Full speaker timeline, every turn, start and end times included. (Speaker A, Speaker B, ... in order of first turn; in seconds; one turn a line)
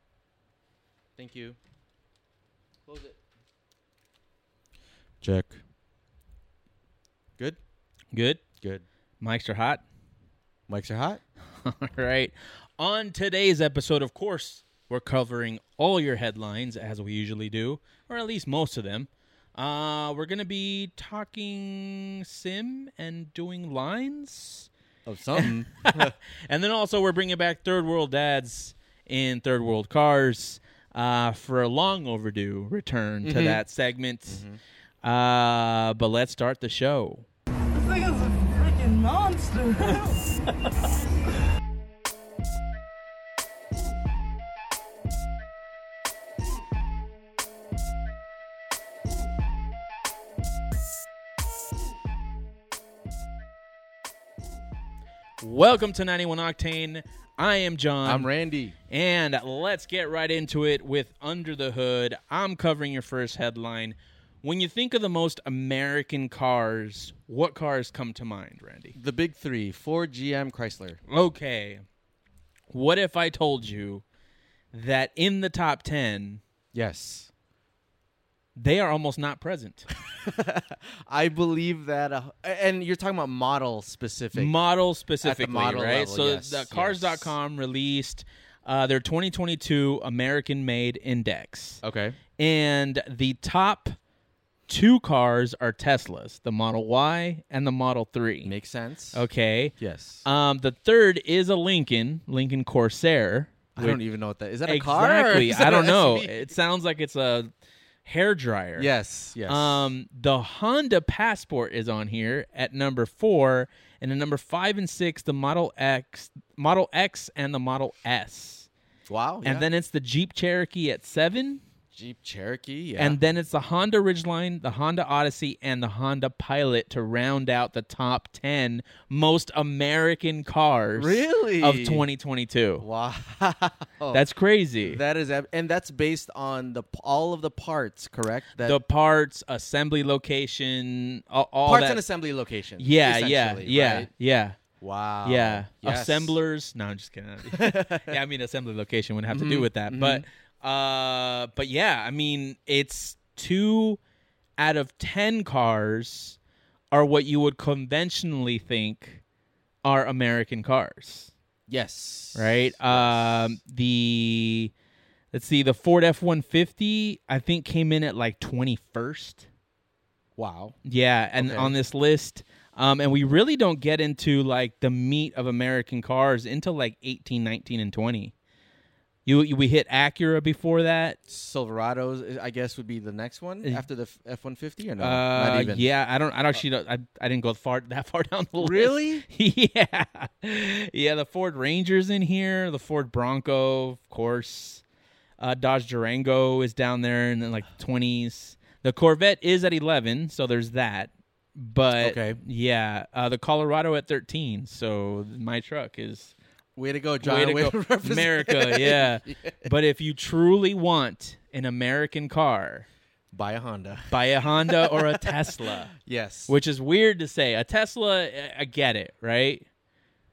Speaker A: 1.2-1.6
Speaker A: 2.9-3.1
Speaker A: 5.2-5.6
Speaker B: 8.1-8.4
Speaker B: 9.2-9.8
Speaker A: 10.7-11.2
Speaker B: 11.6-24.7
Speaker A: 25.1-26.1
Speaker B: 25.4-34.4
Speaker A: 33.2-33.6
Speaker A: 34.3-34.6
Speaker B: 35.0-37.2
Speaker C: 37.7-40.3
Speaker B: 55.4-58.3
Speaker A: 58.0-58.8
Speaker B: 58.9-68.9
Speaker A: 69.0-71.0
Speaker B: 71.1-71.8
Speaker B: 72.7-74.0
Speaker B: 74.7-76.4
Speaker A: 76.7-77.3
Speaker B: 78.5-79.9
Speaker A: 80.1-84.5
Speaker B: 84.3-91.8
Speaker A: 85.2-87.3
Speaker A: 91.8-92.2
Speaker B: 92.4-94.0
Speaker B: 94.7-98.5
Speaker A: 98.4-99.2
Speaker B: 99.1-99.7
Speaker A: 99.8-100.2
Speaker B: 100.2-104.0
Speaker A: 103.8-106.4
Speaker B: 104.7-107.5
Speaker B: 108.0-108.9
Speaker A: 108.8-109.9
Speaker B: 109.5-118.7
Speaker A: 119.1-119.6
Speaker B: 119.4-121.6
Speaker A: 121.9-123.2
Speaker B: 123.0-132.8
Speaker A: 130.9-132.1
Speaker A: 132.8-134.2
Speaker B: 134.1-135.0
Speaker A: 134.8-138.8
Speaker B: 138.6-142.0
Speaker A: 141.6-144.1
Speaker B: 142.8-144.6
Speaker A: 144.8-146.3
Speaker B: 145.2-154.0
Speaker A: 147.5-148.1
Speaker A: 149.3-150.2
Speaker B: 154.6-156.4
Speaker B: 156.9-159.2
Speaker B: 159.8-161.3
Speaker A: 161.7-163.6
Speaker B: 162.3-164.7
Speaker B: 165.3-169.4
Speaker A: 170.4-170.8
Speaker B: 170.8-178.3
Speaker A: 171.4-171.7
Speaker B: 179.2-181.2
Speaker A: 181.3-185.9
Speaker B: 185.0-194.8
Speaker A: 188.6-189.2
Speaker B: 195.4-206.3
Speaker A: 202.0-202.4
Speaker A: 206.8-209.7
Speaker B: 207.2-212.9
Speaker A: 213.3-216.5
Speaker B: 214.1-215.9
Speaker B: 216.5-219.7